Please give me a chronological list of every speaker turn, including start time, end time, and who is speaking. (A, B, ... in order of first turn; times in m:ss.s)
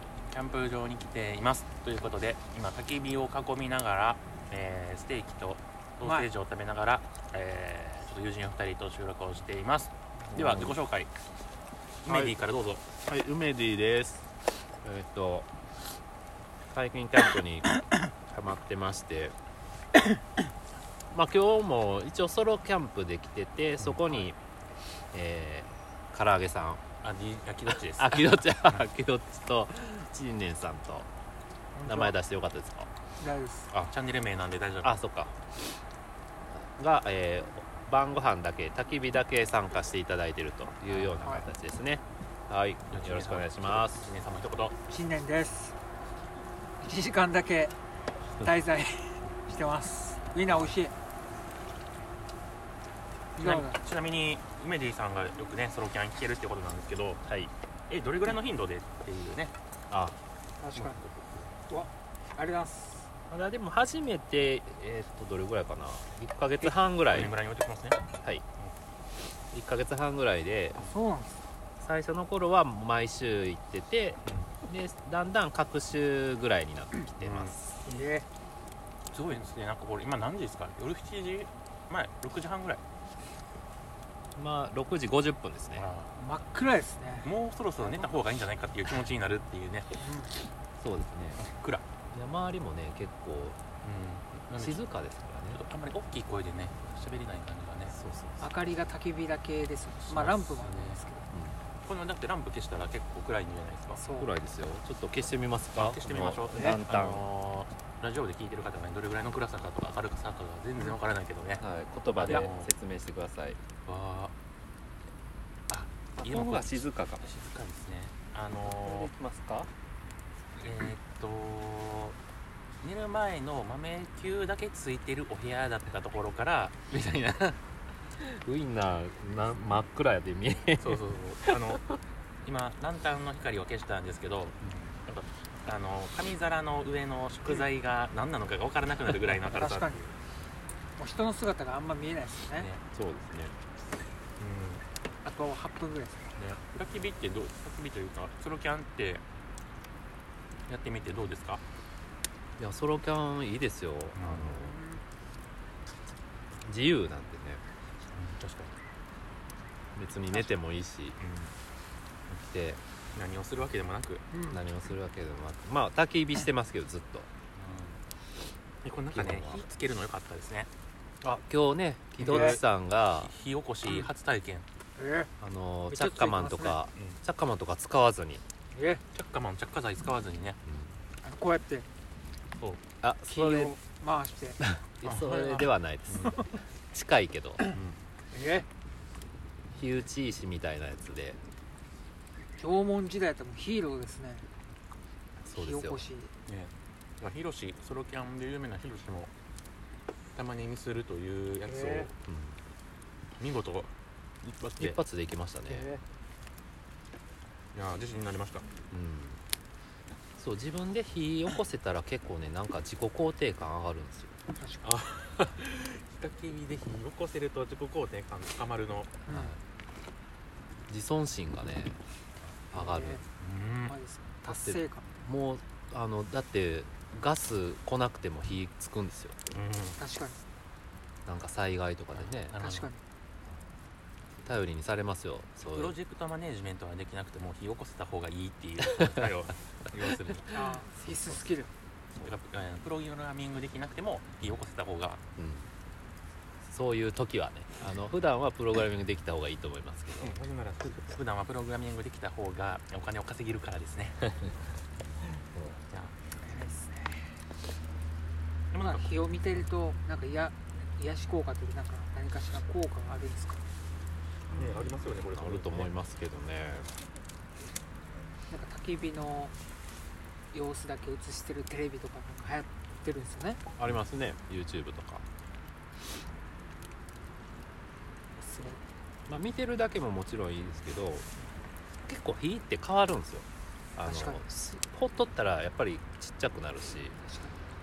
0:00.3-0:11.1 A
0:06.0-0:06.3 B
0:10.2-0:10.8 C
0:12.0-0:12.8 A
0:12.1-0:12.4 C
0:13.0-0:14.3 C
0:14.8-0:15.5 C
0:16.7-0:17.7 C
0:18.3-0:19.4 C
0:21.1-0:24.4 C
0:25.1-0:26.8 C
0:27.0-0:28.9 A
0:27.7-0:31.1 C
0:31.8-0:32.1 B
0:31.8-0:32.9 C
0:33.2-0:33.7 B
0:33.9-0:35.0 A
0:34.8-0:35.4 C
0:36.5-0:44.1 C
0:40.9-0:41.4 A
0:41.2-0:41.5 B
0:42.9-0:44.8 A
0:44.9-0:45.8 B
0:46.8-0:47.8 B
0:48.4-0:50.9 B
0:53.4-0:53.8 B
0:53.4-0:57.2 A
0:57.3-0:57.5 C
0:57.9-0:59.5 A
0:59.9-1:00.2 C
1:00.6-1:01.0 B
1:00.7-1:01.6 A
1:01.7-1:03.1 B
1:03.3-1:07.3 C
1:06.6-1:08.0 A
1:09.5-1:10.8 C
1:10.8-1:11.4 B
1:11.8-1:17.7 C
1:14.2-1:14.5 A
1:17.2-1:17.6 A
1:17.8-1:18.3 B
1:19.1-1:22.8 A
1:24.4-1:25.8 C
1:25.8-1:26.2 A
1:26.2-1:28.2 B
1:27.2-1:29.9 A
1:30.0-1:30.3 B
1:30.8-1:31.4 C
1:31.4-1:31.8 A
1:32.1-1:33.6 C
1:33.8-1:34.8 A
1:34.6-1:35.6 C
1:35.5-1:38.0 A
1:37.9-1:38.5 C
1:38.4-1:41.3 B
1:40.0-1:41.0 A
1:41.3-1:41.6 C
1:41.8-1:44.0 A
1:43.9-1:44.3 B
1:44.2-1:47.2 C
1:45.8-1:52.7 A
1:51.6-1:53.6 C
1:53.9-1:54.3 A
1:55.7-1:59.1 A
1:56.2-1:57.3 C
1:58.6-1:59.7 C
2:00.6-2:02.2 A
2:02.8-2:06.8 A
2:06.9-2:07.6 C
2:08.2-2:12.0 C
2:10.8-2:11.8 A
2:12.4-2:20.0 A
2:14.6-2:14.9 C
2:19.5-2:20.1 B
2:21.0-2:22.7 B
2:22.5-2:22.8 A
2:22.9-2:23.5 C
2:24.4-2:24.8 A
2:25.2-2:26.4 B
2:26.4-2:29.2 A
2:30.7-2:31.6 A
2:32.6-2:34.8 C
2:34.2-2:34.6 A
2:34.6-2:35.0 B
2:36.6-2:37.6 C
2:38.1-2:38.8 A
2:40.0-2:41.2 C
2:41.2-2:41.5 A
2:42.3-2:42.8 C
2:43.2-2:44.2 A
2:44.3-2:44.6 B
2:44.5-2:47.3 C
2:47.6-2:48.0 A
2:48.8-2:50.7 A
2:49.1-2:49.6 C
2:51.2-2:53.3 C
2:52.2-2:52.6 A
2:52.2-2:52.6 B
2:53.2-2:54.7 A
2:55.0-2:55.3 B
2:55.4-2:58.4 C
2:55.9-2:56.8 B
2:57.0-2:57.2 A
2:58.7-2:59.0 B
2:59.1-3:00.6 A
3:00.7-3:01.0 C
3:01.2-3:01.9 B
3:03.0-3:03.8 C
3:03.3-3:04.6 B
3:04.6-3:07.9 C
3:05.0-3:06.4 A
3:08.3-3:08.7 B
3:09.7-3:11.4 C
3:12.6-3:14.5 B
3:15.4-3:16.1 C
3:15.5-3:16.3 B
3:16.5-3:19.3 A
3:20.4-3:22.1 A
3:21.7-3:22.1 B
3:22.3-3:22.6 C
3:23.4-3:23.9 A
3:24.4-3:25.0 A
3:24.8-3:25.9 C
3:27.7-3:28.7 A
3:28.9-3:29.4 C
3:30.4-3:34.3 C
3:34.6-3:34.9 B
3:34.8-3:39.1 A
3:39.3-3:39.6 B
3:39.3-3:39.6 C
3:40.9-3:43.2 C
3:42.7-3:43.2 B
3:43.4-3:44.0 A
3:43.9-3:45.0 B
3:44.4-3:49.4 C
3:49.5-3:50.0 A
3:50.0-3:50.4 B
3:51.3-3:52.6 C
3:52.1-3:52.9 A
3:52.6-3:53.0 B
3:54.4-3:56.0 C
3:55.6-4:00.8 A
4:00.5-4:01.7 B
4:02.2-4:05.2 A
4:05.4-4:05.7 C
4:06.7-4:10.4 C
4:10.2-4:14.3 A
4:15.5-4:15.8 C
4:15.9-4:16.2 A
4:16.4-4:17.4 B
4:18.7-4:19.3 A
4:18.8-4:23.6 B
4:24.5-4:25.9 A
4:25.4-4:26.9 C
4:28.5-4:29.5 B
4:30.5-4:33.6 B
4:33.8-4:35.2 C
4:38.4-4:38.8 B
4:39.3-4:41.3 C
4:42.0-4:47.2 C
4:44.0-4:44.4 B
4:47.2-4:47.6 B